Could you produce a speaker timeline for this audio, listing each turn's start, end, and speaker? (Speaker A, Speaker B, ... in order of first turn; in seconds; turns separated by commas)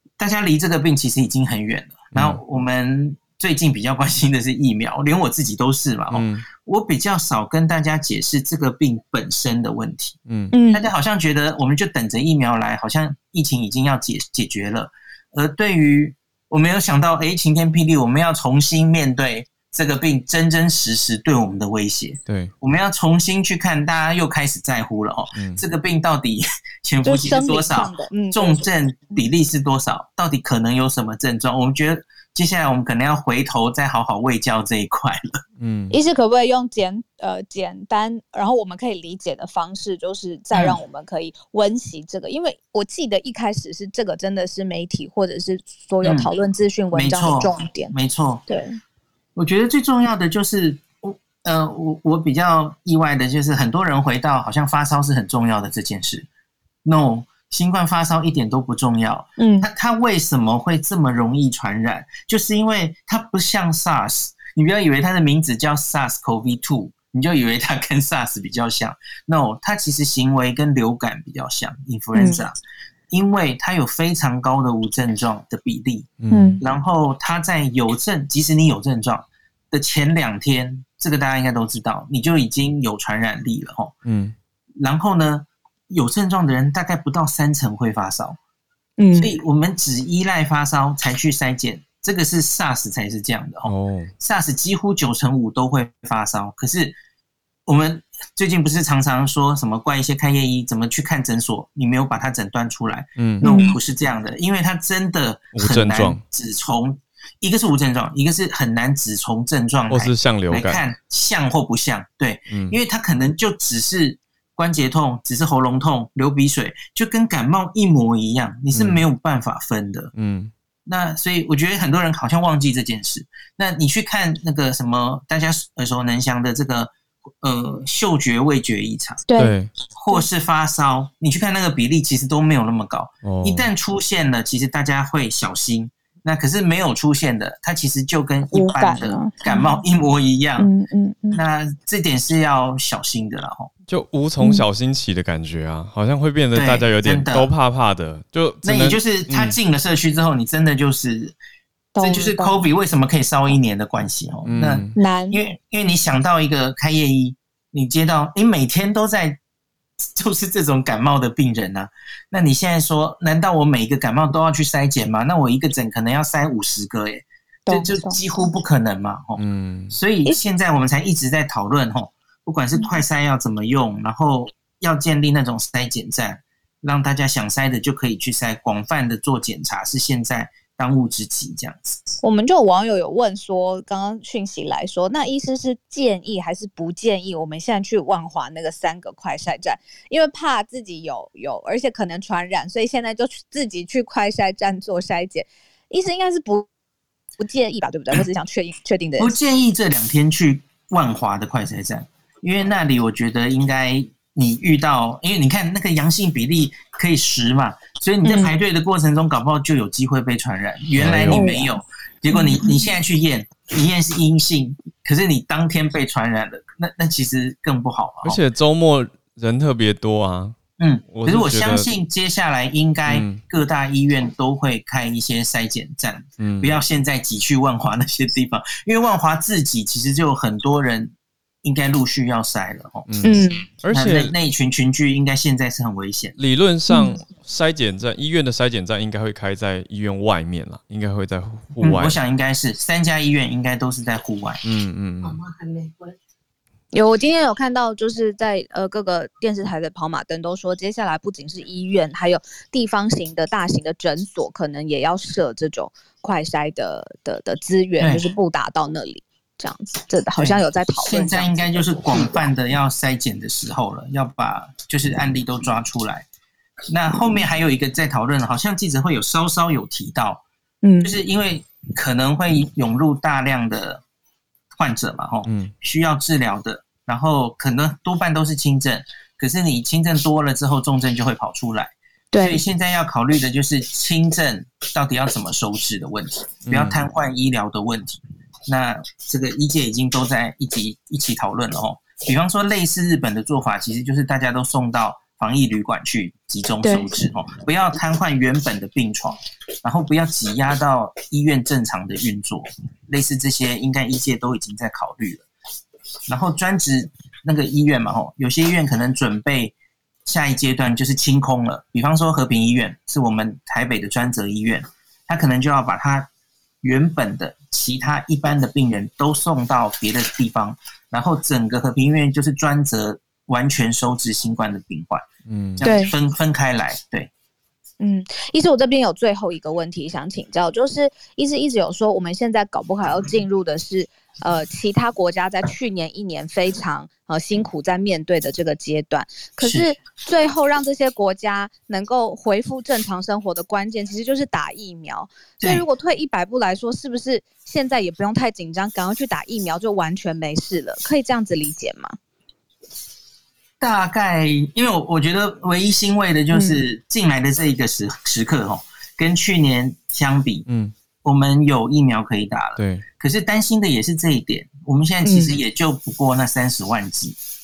Speaker A: 0.2-10.2, Speaker B: 2.1-2.4, Speaker B: 6.1-6.4, Speaker B: 10.3-10.5, Speaker C: 10.5-10.8, Speaker A: 10.7-35.4, Speaker B: 22.2-22.5, Speaker B: 25.3-25.6, Speaker C: 27.0-28.7, Speaker B: 35.6-36.0, Speaker C: 35.9-47.9, Speaker A: 40.5-40.8, Speaker A: 46.0-46.3, Speaker A: 46.9-48.4, Speaker C: 48.5-48.8, Speaker A: 49.4-56.3, Speaker A: 56.8-72.6, Speaker C: 59.4-59.7, Speaker C: 72.1-72.4, Speaker A: 73.1-83.9, Speaker B: 76.2-76.6, Speaker C: 76.3-76.6, Speaker B: 84.0-84.3, Speaker A: 84.8-88.4, Speaker C: 89.0-89.3, Speaker A: 89.1-97.0, Speaker B: 93.7-94.1, Speaker A: 97.7-120.1, Speaker B: 103.2-103.5, Speaker C: 103.4-103.8, Speaker B: 105.5-106.2, Speaker B: 109.9-110.8, Speaker B: 112.5-112.8, Speaker B: 118.7-119.0, Speaker B: 120.1-120.5, Speaker A: 120.8-129.2, Speaker C: 129.3-129.5, Speaker B: 129.4-129.7, Speaker A: 129.9-140.7, Speaker B: 133.2-133.7, Speaker C: 138.5-139.8, Speaker C: 140.6-141.4, Speaker A: 141.3-143.7, Speaker B: 143.9-149.6, Speaker C: 144.4-144.7, Speaker A: 146.5-147.5, Speaker A: 148.6-151.3, Speaker C: 151.9-152.6, Speaker A: 152.0-159.4, Speaker B: 154.4-154.9, Speaker C: 154.9-155.4, Speaker A: 160.0-182.1, Speaker C: 167.7-168.2, Speaker B: 169.4-169.9, Speaker C: 182.2-196.7, Speaker C: 197.4-199.3, Speaker A: 199.2-218.4, Speaker C: 208.2-208.6, Speaker B: 210.9-211.5, Speaker C: 211.3-211.7, Speaker C: 212.3-212.8, Speaker B: 218.2-220.6, Speaker A: 220.8-233.1, Speaker B: 221.1-221.9, Speaker B: 223.1-223.4, Speaker B: 226.4-226.8, Speaker B: 233.1-234.3, Speaker C: 233.2-233.7, Speaker A: 233.9-236.3, Speaker B: 236.4-242.2, Speaker C: 236.9-237.2, Speaker A: 241.8-244.6, Speaker B: 244.6-245.4, Speaker C: 246.9-262.4, Speaker A: 258.0-258.2, Speaker A: 260.4-266.2, Speaker A: 266.9-270.4, Speaker C: 270.8-271.1, Speaker A: 271.0-274.0, Speaker A: 274.7-305.4, Speaker B: 275.4-275.7, Speaker C: 282.3-282.6, Speaker B: 286.6-287.0, Speaker C: 296.8-297.1, Speaker A: 306.3-316.3, Speaker A: 316.8-325.2, Speaker B: 325.5-325.9, Speaker A: 325.8-327.3, Speaker C: 325.8-326.1, Speaker C: 328.0-352.2, Speaker A: 339.6-339.9, Speaker A: 353.8-360.6, Speaker C: 356.5-356.8, Speaker B: 360.7-360.9, Speaker A: 361.2-367.4, Speaker B: 362.8-363.1, Speaker C: 365.2-365.6